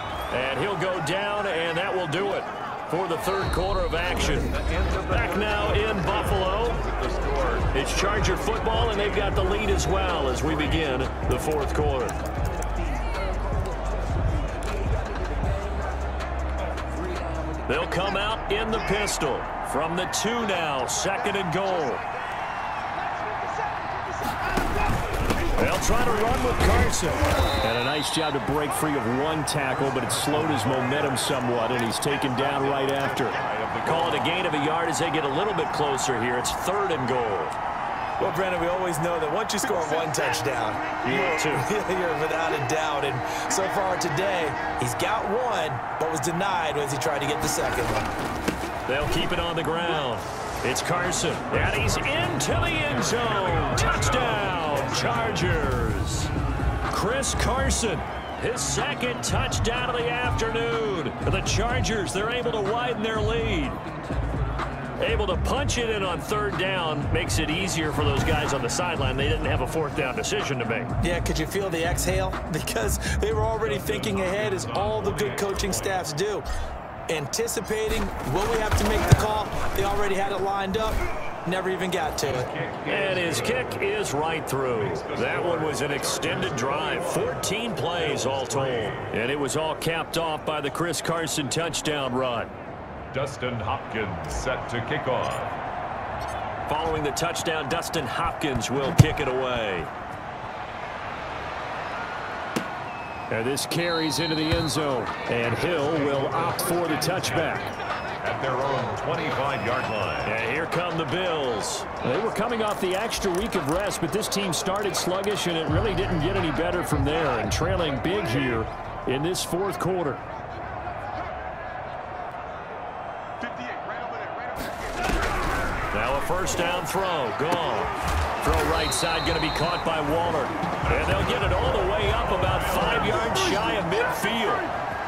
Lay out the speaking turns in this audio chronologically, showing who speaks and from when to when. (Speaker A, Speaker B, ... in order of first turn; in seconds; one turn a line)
Speaker A: 0.3-4.5
Speaker B: 4.2-7.8
Speaker A: 5.1-6.8
Speaker A: 7.7-12.2
Speaker B: 8.8-9.4
Speaker B: 10.0-11.0
Speaker A: 17.7-22.1
Speaker A: 25.6-37.5
Speaker B: 29.9-34.5
Speaker C: 38.2-48.1
Speaker A: 41.0-41.7
Speaker A: 48.9-56.3
Speaker B: 51.5-55.7
Speaker A: 56.9-63.8
Speaker A: 65.0-71.0
Speaker C: 71.0-76.5
Speaker B: 73.6-76.0
Speaker C: 77.1-82.5
Speaker B: 82.2-83.8
Speaker A: 82.9-92.5
Speaker B: 84.7-89.2
Speaker B: 93.1-95.6
Speaker A: 96.7-99.9
Speaker A: 103.3-107.7
Speaker B: 105.5-107.7
Speaker B: 108.2-110.4
Speaker A: 110.2-120.2
Speaker A: 125.9-134.7
Speaker B: 130.9-134.0